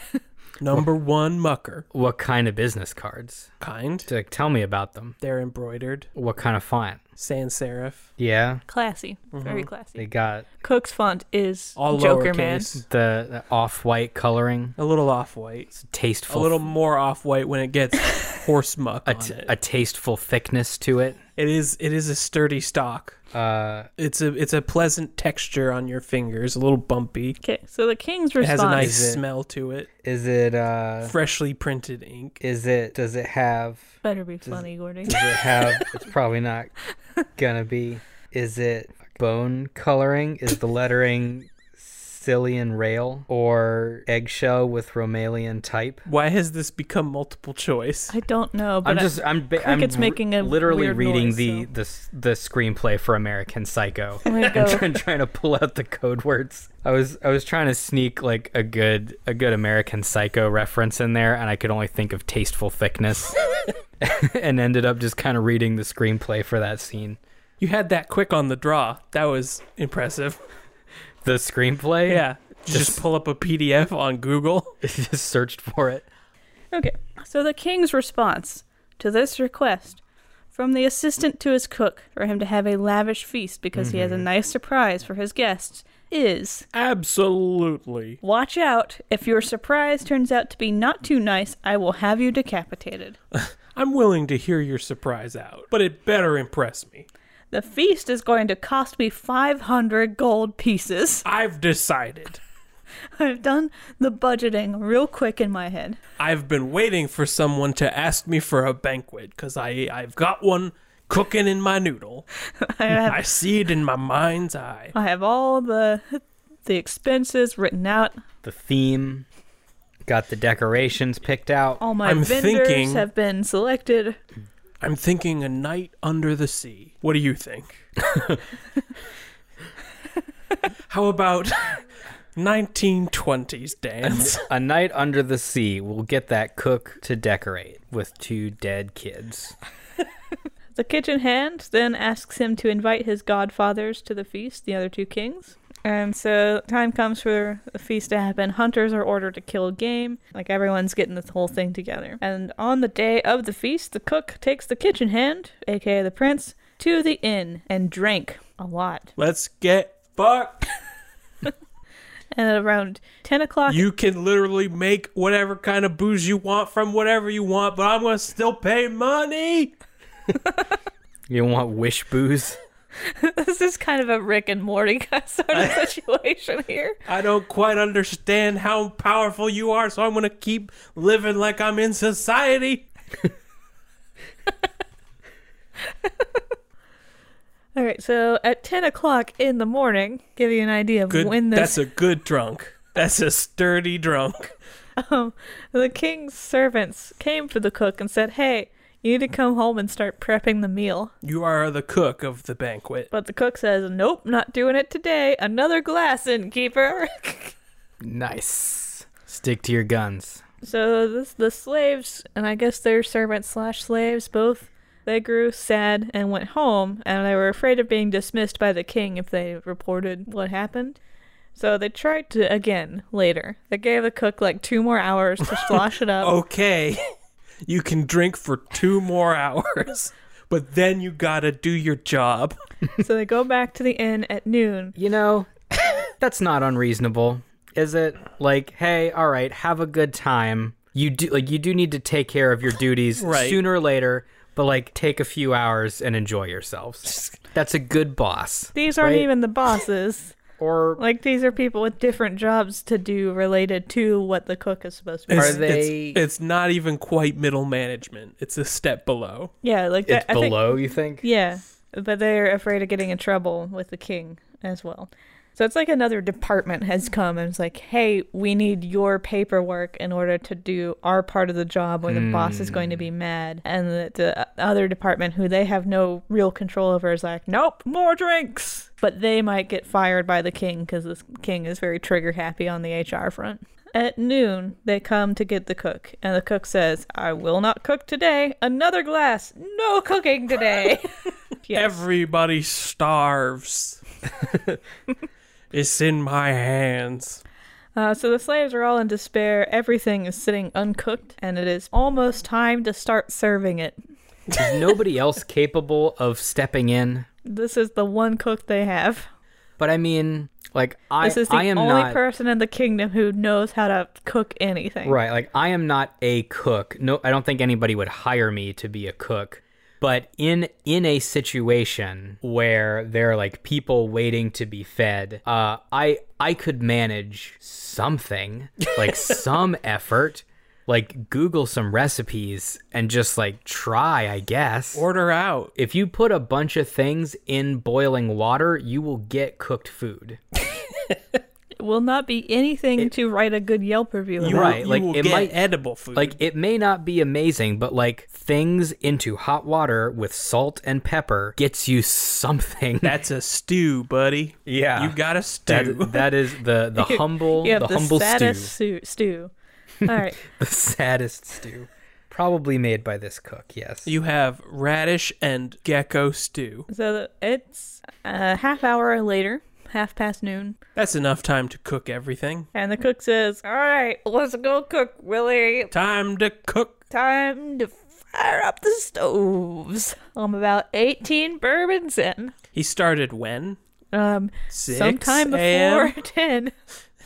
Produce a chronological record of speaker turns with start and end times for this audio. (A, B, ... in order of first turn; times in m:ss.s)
0:00.6-0:01.8 A
0:01.9-0:03.5 B
0:03.6-0:04.1 A
0:04.1-0:05.2 B
0:05.2-0:06.1 A
0:06.2-0:07.0 B
0:07.2-0:08.1 A
0:08.2-0:08.6 B
0:08.7-0:10.1 C
0:09.3-0:09.7 A
0:10.0-0:10.5 B
0:10.6-0:12.7 C
0:11.8-0:12.8 A
0:12.8-0:14.8 B
0:14.8-0:15.8 A
0:15.8-0:16.6 B
0:16.3-0:19.5 A
0:19.0-0:21.2 B
0:21.4-0:23.2 A
0:23.3-0:23.9 B
0:24.0-0:27.4 A
0:27.4-0:29.0 C
0:28.4-0:29.9 A
0:28.8-0:29.2 B
0:30.0-0:31.2 B
0:31.0-0:32.4 A
0:32.4-0:36.7 B
0:34.0-0:35.9 C
0:37.4-0:46.0 B
0:46.1-0:48.1 A
0:48.1-0:51.7 C
0:48.8-1:03.4 B
0:54.3-0:54.9 C
1:04.0-1:07.2 B
1:07.6-1:10.4 A
1:11.2-1:13.0 B
1:12.1-1:14.8 A
1:14.8-1:16.1 B
1:16.7-1:20.0 C
1:20.5-1:26.7 C
1:23.8-1:24.2 B
1:26.7-1:28.2 A
1:28.2-1:33.2 C
1:33.3-1:37.1 A
1:37.5-1:41.2 C
1:41.2-1:42.4 A
1:43.2-1:46.0 C
1:46.2-1:52.2 A
1:52.6-1:53.2 C
1:52.9-1:55.0 A
1:55.0-1:58.2 C
1:58.4-1:59.3 B
2:00.0-2:01.8 B
2:01.8-2:04.2 C
2:02.0-2:03.1 A
2:04.8-2:07.9 A
2:08.1-2:08.4 B
2:10.9-2:11.8 A
2:12.4-2:14.4 A
2:14.0-2:19.6 B
2:20.8-2:39.1 C
2:39.2-2:40.6 A
2:42.3-2:43.8 C
2:43.7-2:49.7 A
2:51.3-2:52.6 B
2:53.0-2:57.0 C
2:55.5-2:55.8 A
2:57.1-3:02.9 A
3:07.8-3:11.8 C
3:11.1-3:14.5 A
3:15.0-3:21.1 C
3:21.2-3:23.1 A
3:23.1-3:27.5 C
3:28.0-3:30.4 B
3:30.6-3:41.0 C
3:41.6-3:46.3 C
3:46.2-3:47.1 A
3:47.7-3:52.6 A
3:53.0-3:55.0 C
3:55.0-4:09.3 B
4:03.2-4:03.6 A
4:08.8-4:10.4 C
4:10.6-4:11.0 B
4:11.0-4:15.7 C
4:15.3-4:19.5 A
4:15.4-4:16.2 B
4:19.6-4:51.1 C
4:20.1-4:21.2 B
4:32.1-4:33.1 B
4:51.6-4:52.0 C
4:51.7-4:54.0 A
4:55.7-4:57.4 A
4:58.0-5:04.0 C
5:04.6-5:07.3 B
5:07.4-5:09.3 C
5:09.8-5:12.2 B
5:11.2-5:15.2 C
5:15.0-5:35.0 B
5:34.9-5:35.7 A
5:35.8-5:40.4 B
5:41.8-5:44.8 C
5:44.4-5:46.4 A
5:44.5-5:45.6 B
5:46.2-5:53.2 B
5:53.0-5:56.3 A
5:54.7-5:58.7 B
5:57.0-5:59.5 C
6:00.0-6:00.4 C
6:00.1-6:04.1 B
6:04.0-6:06.9 A
6:06.9-6:10.8 C
6:11.0-6:12.7 A
6:12.8-6:15.9 C
6:15.9-6:17.0 A
6:17.1-6:22.6 C
6:22.7-6:23.8 A
6:24.1-6:26.7 C
6:24.7-6:26.1 A